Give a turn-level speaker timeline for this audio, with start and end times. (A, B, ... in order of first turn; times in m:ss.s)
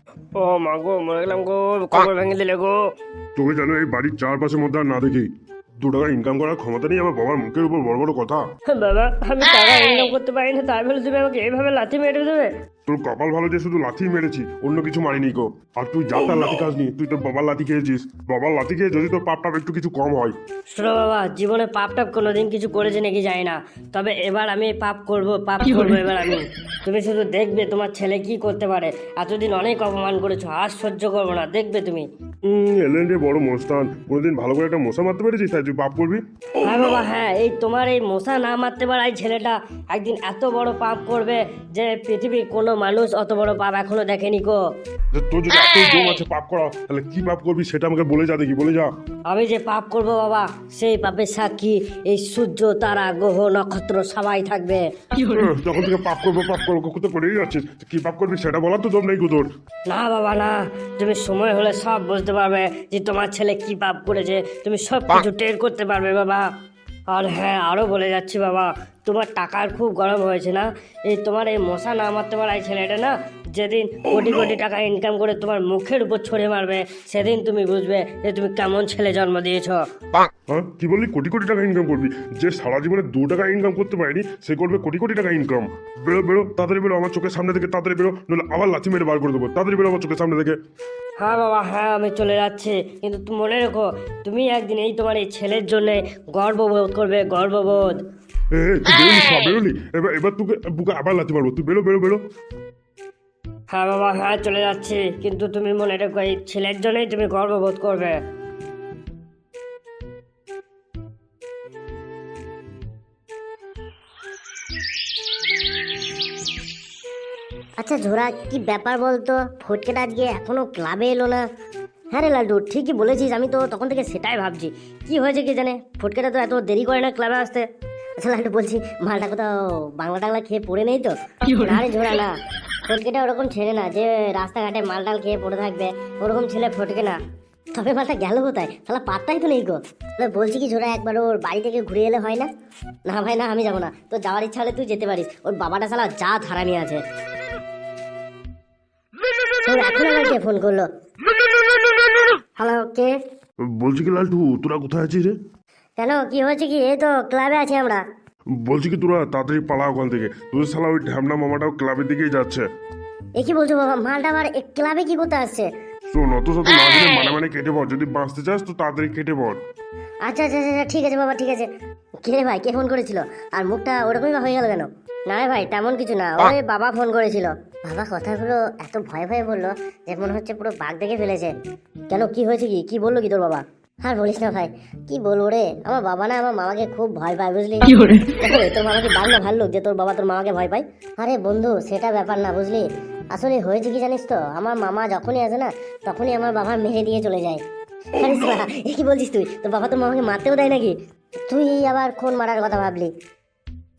0:00.3-0:02.9 A
0:03.4-0:08.4 B
0:08.7-0:12.5 A
0:12.9-0:20.4 B
0:20.7-0:32.0 A
0:32.4-0:36.2 B
0:36.6-0:44.6 A
0:45.1-0:48.9 B
0:49.3-0:55.4 A
0:55.3-0:59.5 B
0:59.9-1:06.5 A
1:07.1-1:19.8 A
1:20.5-1:30.6 B
1:31.2-1:38.0 A
1:38.5-1:42.2 B
1:43.7-1:48.2 A
1:57.8-2:01.4 C
2:02.1-2:07.6 C
2:08.2-2:12.4 C
2:12.9-2:17.2 C
2:17.7-2:22.5 C
2:23.0-2:27.0 C
2:29.6-2:30.9 C
2:32.6-2:33.2 C
2:33.7-2:35.3 B
2:36.0-2:38.0 C
2:38.6-2:42.6 B
2:43.4-2:45.7 C
2:46.1-2:49.6 B
2:50.2-2:51.7 C
2:52.2-3:01.5 C
3:02.1-3:17.6 C
3:18.2-3:20.9 C
3:21.5-3:23.1 C